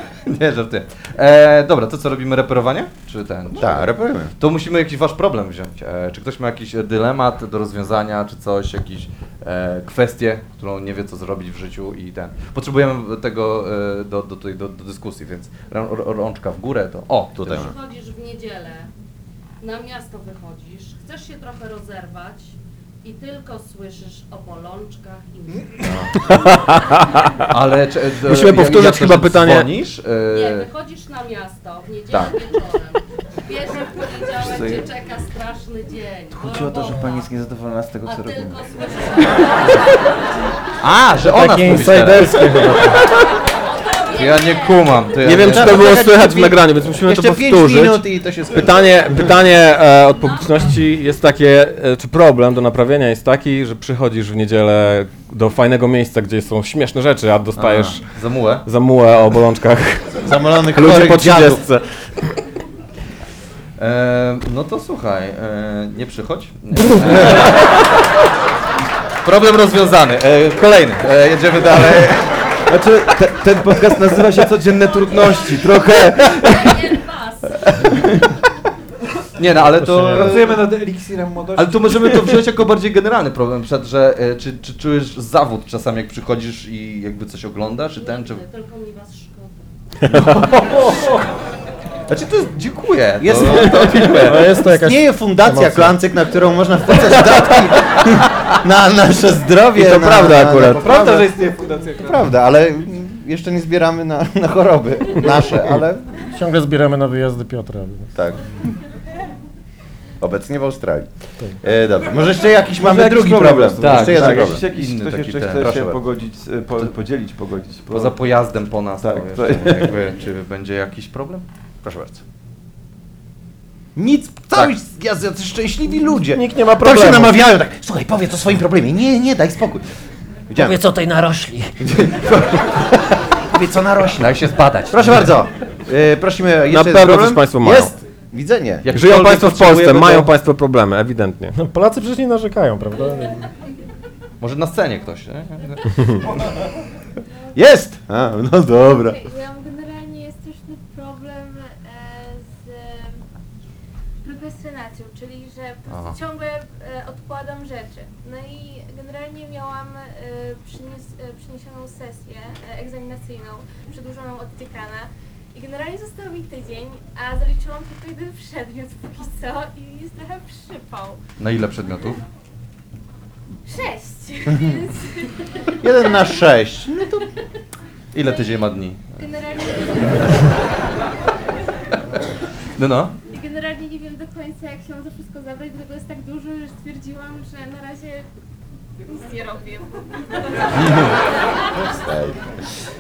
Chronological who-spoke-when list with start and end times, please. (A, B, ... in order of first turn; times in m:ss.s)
0:00.3-0:17.6 A
0:03.6-0:04.3 B
0:17.4-0:17.8 B
0:17.4-0:18.9 C
0:19.6-0:26.1 C
0:26.1-0:27.6 D
0:27.5-0:30.7 A
0:28.3-0:29.7 D
0:30.3-0:37.3 C
0:32.1-0:32.4 E
0:34.4-0:34.9 E
0:36.3-0:38.6 E
0:38.0-0:40.1 C
0:39.2-0:39.8 E
0:40.8-0:42.8 A
0:41.1-0:43.0 F
0:44.1-0:45.0 C
0:44.1-0:46.0 A
0:45.2-0:58.1 D
0:45.4-0:49.2 B
0:57.6-0:58.6 A
0:58.6-1:02.3 D
1:00.2-1:01.6 B
1:03.8-1:07.9 A
1:09.2-1:12.4 A
1:12.7-1:17.0 E
1:16.4-1:18.0 C
1:17.7-1:18.3 E
1:19.4-1:20.7 A
1:19.6-1:20.4 F
1:20.2-1:22.1 G
1:21.6-1:28.4 A
1:28.0-1:29.6 C
1:30.2-1:30.5 D
1:30.3-1:31.3 G
1:32.1-1:34.5 A
1:33.2-1:41.3 B
1:33.7-1:36.0 F
1:39.8-1:41.1 D
1:40.8-1:42.2 G
1:42.0-1:46.2 B
1:46.2-1:48.1 F
1:48.2-1:48.6 B
1:50.2-1:54.6 B
1:52.8-1:58.2 E
1:53.8-1:56.0 A
1:57.9-2:01.4 A
1:59.0-2:00.0 E
2:01.8-2:02.2 B
2:04.0-2:09.8 B
2:06.2-2:07.4 F
2:10.5-2:10.9 B
2:10.6-2:11.7 F
2:12.0-2:13.1 A
2:13.4-2:18.9 B
2:14.2-2:15.4 A
2:16.7-2:17.9 D
2:18.8-2:20.3 A
2:18.9-2:21.6 D
2:21.6-2:23.5 F
2:24.4-2:26.3 A
2:27.6-2:29.2 B
2:28.8-2:33.2 H
2:34.2-2:51.2 H
2:35.9-2:36.2 A
2:51.4-2:52.2 A
2:53.7-2:55.3 H
2:54.5-2:54.7 B
2:55.8-2:57.3 B
2:56.0-2:56.4 H
2:58.1-2:59.2 A
2:59.2-3:00.7 H
3:02.8-3:03.1 A
3:03.3-3:08.3 H
3:09.1-3:10.1 H
3:11.9-3:12.6 B